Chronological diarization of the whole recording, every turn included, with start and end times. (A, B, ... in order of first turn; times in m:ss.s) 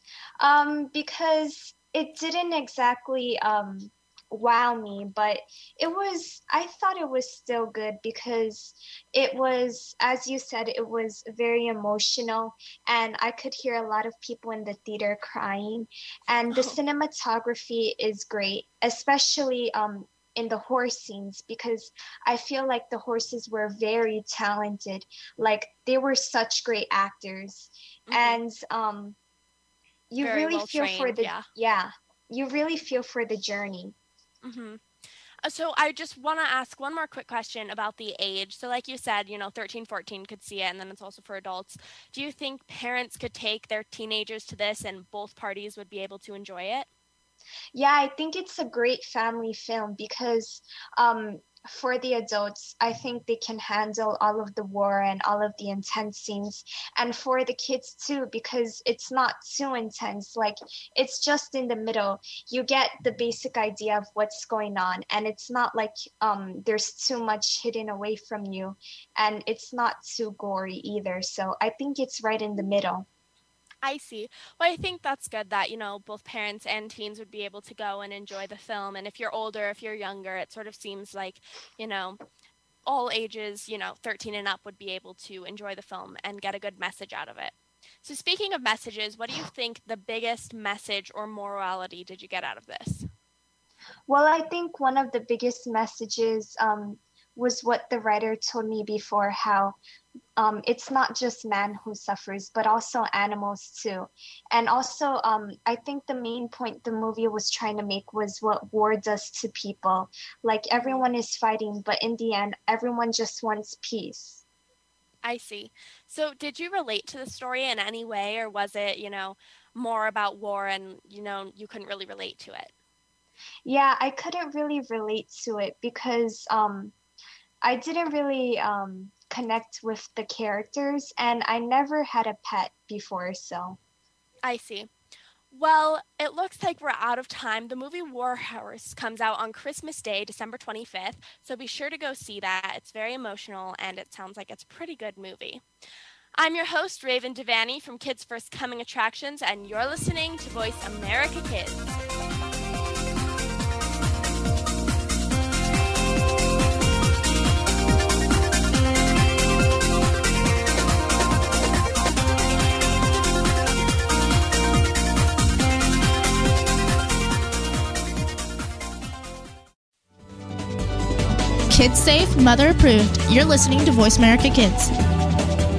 0:00.4-0:29.2 A
0:16.5-0:16.8 B
0:28.1-0:28.4 B
0:30.1-0:34.0 A
0:30.2-0:31.5 B
0:34.4-0:34.8 B
0:35.4-0:46.9 B
0:47.8-1:13.1 A
1:13.8-1:22.2 B
1:22.9-1:33.1 B
1:34.1-1:39.8 A
1:40.4-1:54.4 A
1:50.8-1:51.1 B
1:55.2-2:02.7 B
2:03.6-2:07.0 A
2:07.6-2:13.8 A
2:14.4-2:14.9 B
2:15.5-2:25.6 B
2:26.4-2:32.0 B
2:51.7-2:54.9 C